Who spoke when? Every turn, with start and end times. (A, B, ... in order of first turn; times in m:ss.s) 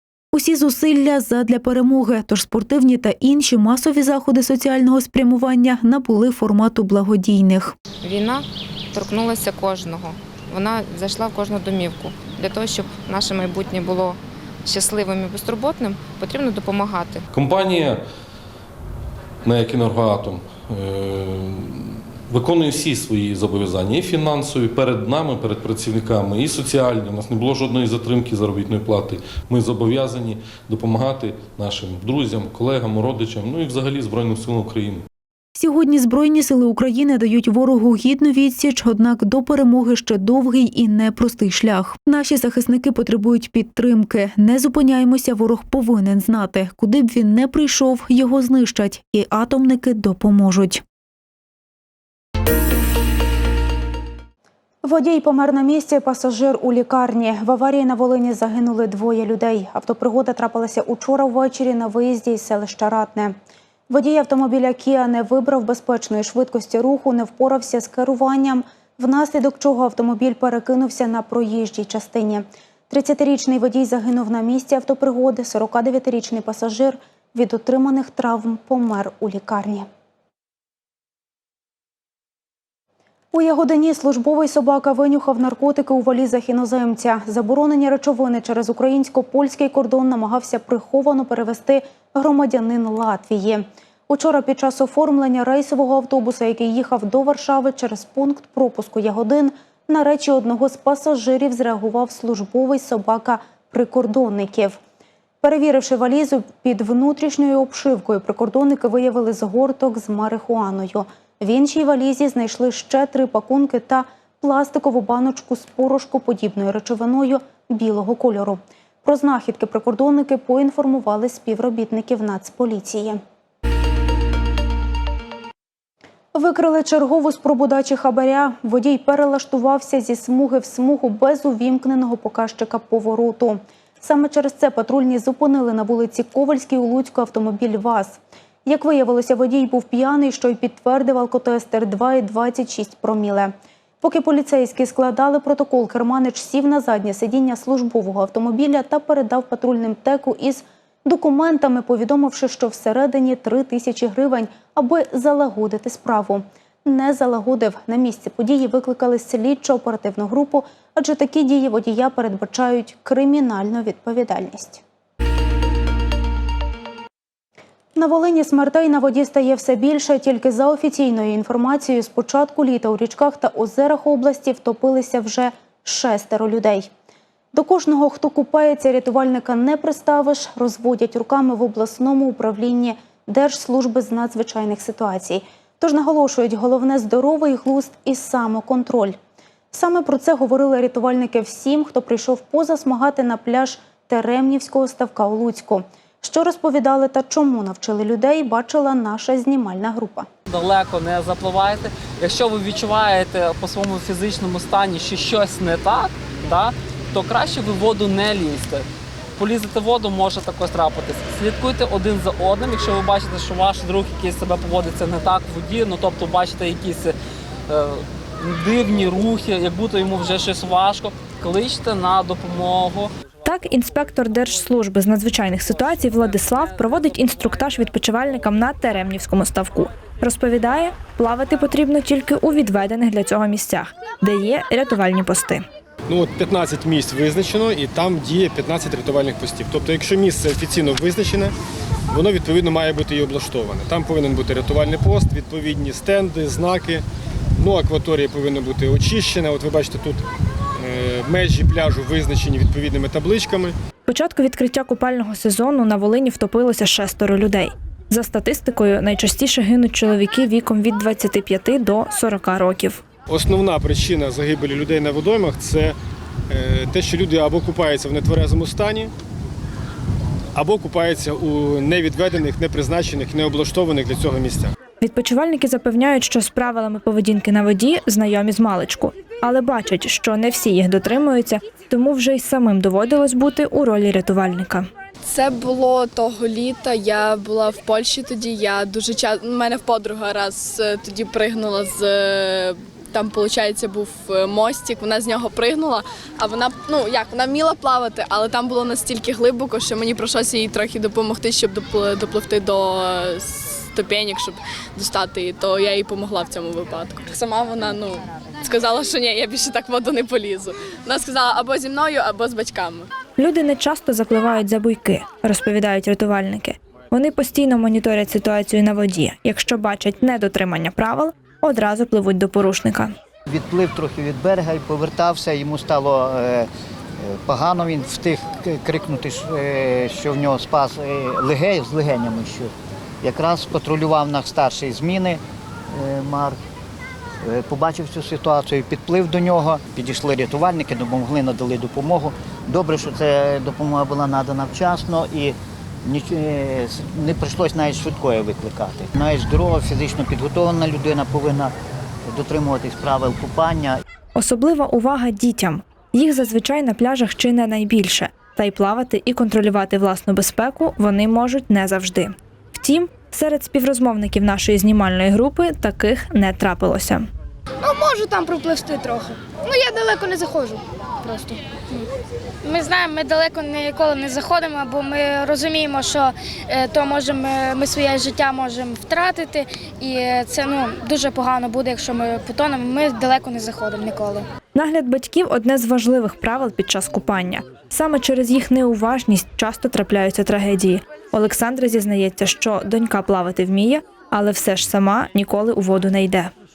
0:00.3-0:07.7 A
0:08.0-0:17.2 B
0:17.3-0:18.0 C
0:19.4-0:35.0 C
0:35.6-0:50.8 A
0:54.8-1:03.3 A
1:03.9-1:19.8 A
1:23.3-1:44.8 A
1:45.4-2:03.2 A
2:06.3-2:44.8 A
2:47.9-2:56.9 A
2:57.5-3:09.2 A
3:09.7-3:20.3 A
3:20.5-3:37.1 D
3:37.7-3:43.1 D
3:43.4-3:55.6 E
3:56.1-4:01.5 F
4:02.1-4:07.0 F
4:07.6-4:10.2 F
4:10.8-4:13.7 F
4:14.1-4:23.0 E
4:23.3-4:26.0 F
4:26.5-4:29.1 F
4:30.5-4:34.7 F
4:35.0-4:44.9 E
4:45.3-5:13.1 G
5:13.4-5:23.1 E
5:23.5-5:26.7 H
5:27.2-5:35.4 H
5:35.9-5:36.6 H
5:37.4-5:51.7 H
5:52.2-5:54.0 H
5:54.3-6:07.3 E
6:07.8-6:12.1 I
6:12.6-6:24.5 I
6:24.7-6:36.5 E